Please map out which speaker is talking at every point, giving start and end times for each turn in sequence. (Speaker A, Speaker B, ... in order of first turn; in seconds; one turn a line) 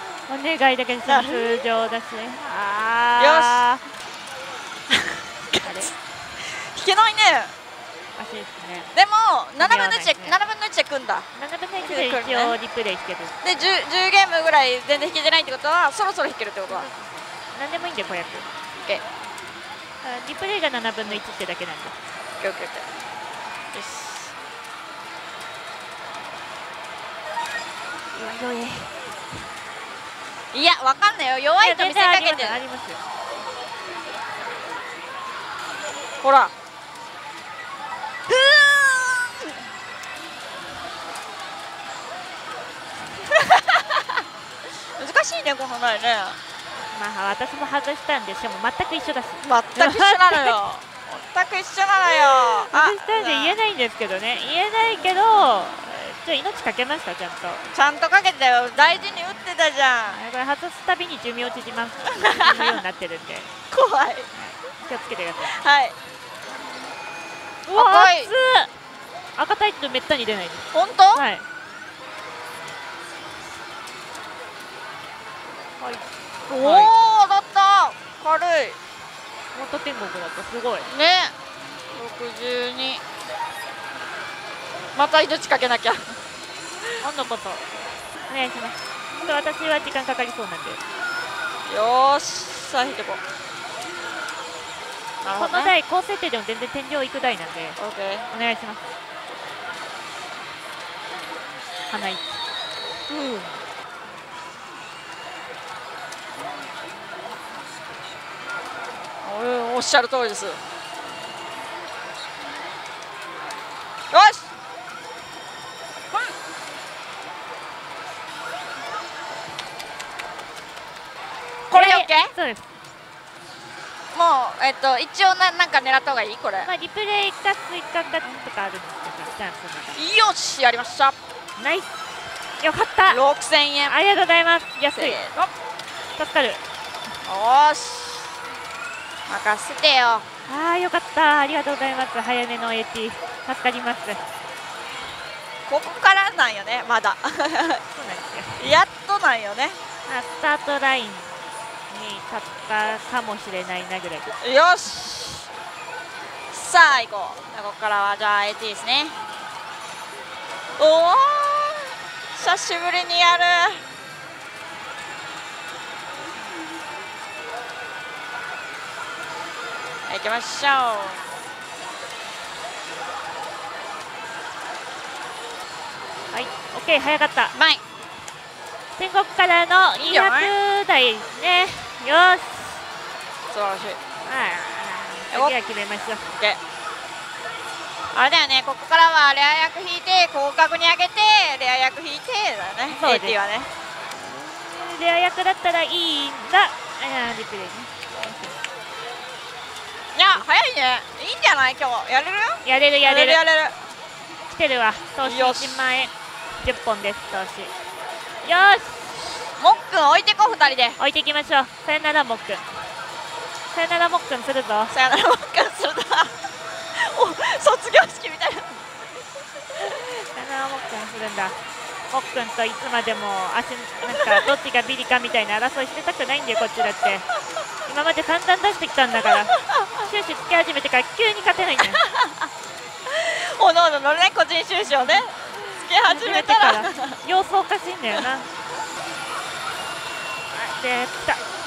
Speaker A: 0.3-3.8
Speaker B: 1.1-1.6
Speaker B: 3.2-3.7
Speaker B: 4.9-7.5
Speaker A: 5.6-5.9
Speaker A: 8.2-8.9
Speaker B: 8.9-11.3
Speaker A: 9.6-10.4
Speaker A: 11.3-13.4
Speaker B: 11.8-12.6
Speaker B: 13.4-16.9
Speaker A: 16.7-18.5
Speaker A: 20.0-22.0
Speaker B: 22.4-22.9
Speaker B: 23.7-24.3
Speaker A: 28.1-29.2
Speaker B: 30.5-32.6
Speaker A: 31.6-33.0
Speaker B: 36.2-36.5
Speaker B: 38.3-39.5
Speaker B: 43.3-46.4
Speaker A: 46.9-50.6
Speaker B: 49.4-53.6
Speaker A: 52.1-57.7
Speaker B: 57.7-60.2
Speaker A: 60.1-63.5
Speaker B: 62.1-62.8
Speaker B: 63.7-64.3
Speaker A: 64.3-65.6
Speaker B: 65.5-66.0
Speaker A: 67.7-68.7
Speaker B: 67.7-68.3
Speaker A: 69.4-71.5
Speaker B: 70.7-71.2
Speaker A: 75.8-76.0
Speaker B: 76.5-78.8
Speaker A: 76.6-76.9
Speaker A: 79.5-80.9
Speaker B: 80.9-81.3
Speaker B: 81.9-83.0
Speaker B: 85.0-86.2
Speaker A: 87.0-87.7
Speaker A: 88.3-90.8
Speaker B: 91.7-93.2
Speaker B: 95.2-95.7
Speaker A: 95.3-97.8
Speaker B: 97.8-98.3
Speaker A: 98.3-98.8
Speaker A: 101.9-102.4
Speaker B: 103.1-103.6
Speaker B: 109.2-110.6
Speaker B: 114.1-114.5
Speaker A: 121.7-122.7
Speaker B: 121.7-122.3
Speaker B: 124.1-126.7
Speaker A: 126.6-130.0
Speaker B: 129.9-131.2
Speaker A: 131.6-131.9
Speaker A: 132.6-133.2
Speaker B: 133.1-133.9
Speaker A: 133.9-135.2
Speaker B: 135.0-135.5
Speaker A: 136.2-136.6
Speaker B: 137.2-138.3
Speaker B: 139.3-140.3
Speaker A: 140.4-144.2
Speaker B: 145.7-147.8
Speaker A: 147.9-148.6
Speaker B: 148.6-149.8
Speaker A: 150.1-151.3
Speaker A: 151.9-154.3
Speaker B: 154.4-155.5
Speaker B: 156.5-159.2
Speaker B: 160.8-163.8
Speaker B: 170.1-171.2
Speaker A: 176.3-177.6
Speaker B: 177.5-177.8
Speaker A: 179.0-182.8
Speaker B: 180.0-180.5
Speaker B: 183.5-184.0
Speaker A: 184.2-186.3
Speaker B: 188.1-193.7
Speaker A: 192.9-193.4
Speaker A: 194.2-198.6
Speaker B: 200.1-203.8
Speaker A: 202.6-203.4
Speaker A: 204.5-207.7
Speaker B: 205.2-205.8
Speaker A: 208.4-209.5
Speaker B: 209.6-211.0
Speaker A: 211.0-212.7
Speaker A: 213.7-215.0
Speaker B: 214.9-216.3
Speaker B: 216.9-218.9
Speaker A: 219.8-221.6
Speaker A: 222.1-227.3
Speaker B: 224.1-224.5
Speaker A: 227.9-232.0
Speaker B: 232.0-232.5
Speaker B: 233.1-237.2
Speaker A: 236.1-238.5
Speaker A: 240.5-241.4